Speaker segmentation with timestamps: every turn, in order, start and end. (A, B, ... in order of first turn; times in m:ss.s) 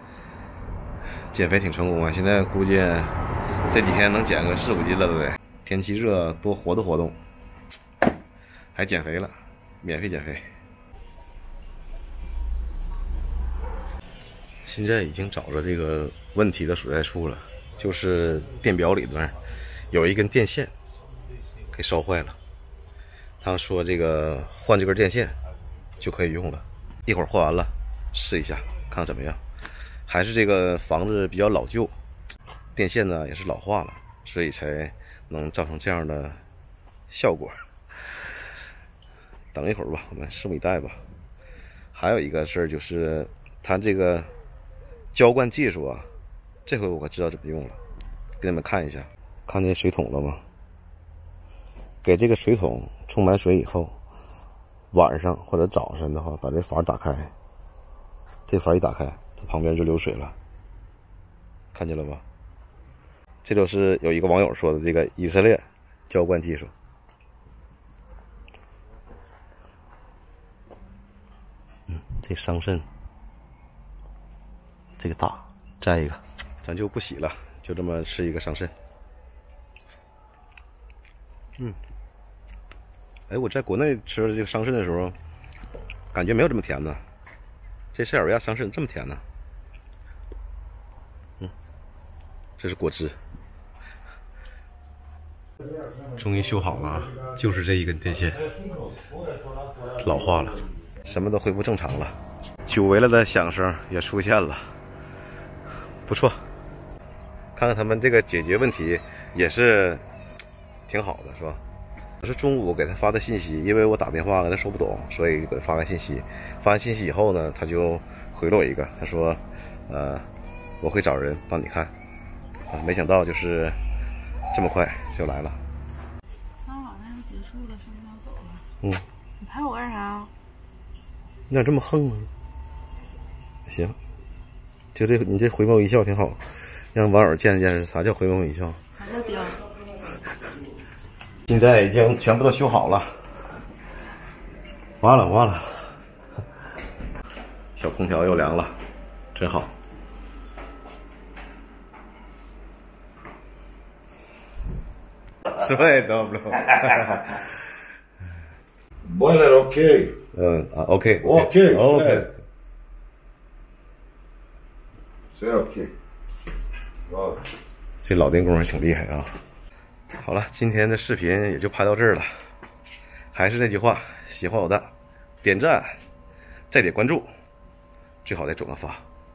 0:01.3-0:07.2 A
0:08.8-0:10.5 A
0:14.6-0:19.4 A
0:19.9-0:20.7 A
0:21.7-0:22.4 A
0:23.4-0:25.4 A
0:26.0-0:29.4 A
0:30.1-0:31.9 A
0:32.8-0:36.4 A
0:37.1-0:37.6 A
0:39.5-0:41.0 A
0:41.9-0:44.3 A
0:45.1-0:46.1 A
0:46.7-0:47.8 A
0:48.4-0:50.4 A
0:52.0-0:54.0 A
0:54.9-0:57.3 A
0:58.5-1:00.4 A
1:01.7-1:02.2 A
1:03.4-1:06.7 A
1:11.9-1:12.8 A
1:15.0-1:18.7 A
1:23.3-1:25.2 A
1:26.1-1:27.0 A
1:27.9-1:29.2 A
1:32.6-1:33.2 A
1:36.2-1:38.5 A
1:39.9-1:44.8 A
1:46.1-1:46.4 A
1:47.6-1:50.0 A
1:50.9-1:51.6 A
1:52.2-2:00.3 A
2:00.8-2:01.9 A
2:02.7-2:03.8 A
2:04.5-2:05.6 A
2:06.6-2:08.7 B
2:09.4-2:10.3 B
2:11.5-2:12.3 A
2:13.7-2:14.0 A
2:14.9-2:18.8 A
2:19.0-2:19.7 B
2:21.5-2:23.1 A
2:25.0-2:26.0 A
2:27.8-2:28.8 A
2:29.4-2:29.7 A
2:35.5-2:37.5 A
2:39.0-2:40.2 C
2:40.3-2:42.4 A
2:41.2-2:42.3 C
2:45.4-2:45.9 C
2:47.1-2:47.4 C
2:48.0-2:49.4 A
2:50.2-2:52.4 A
2:53.3-2:54.9 A
2:55.4-2:56.0 A
2:56.7-2:57.3 A
2:58.2-2:59.0 A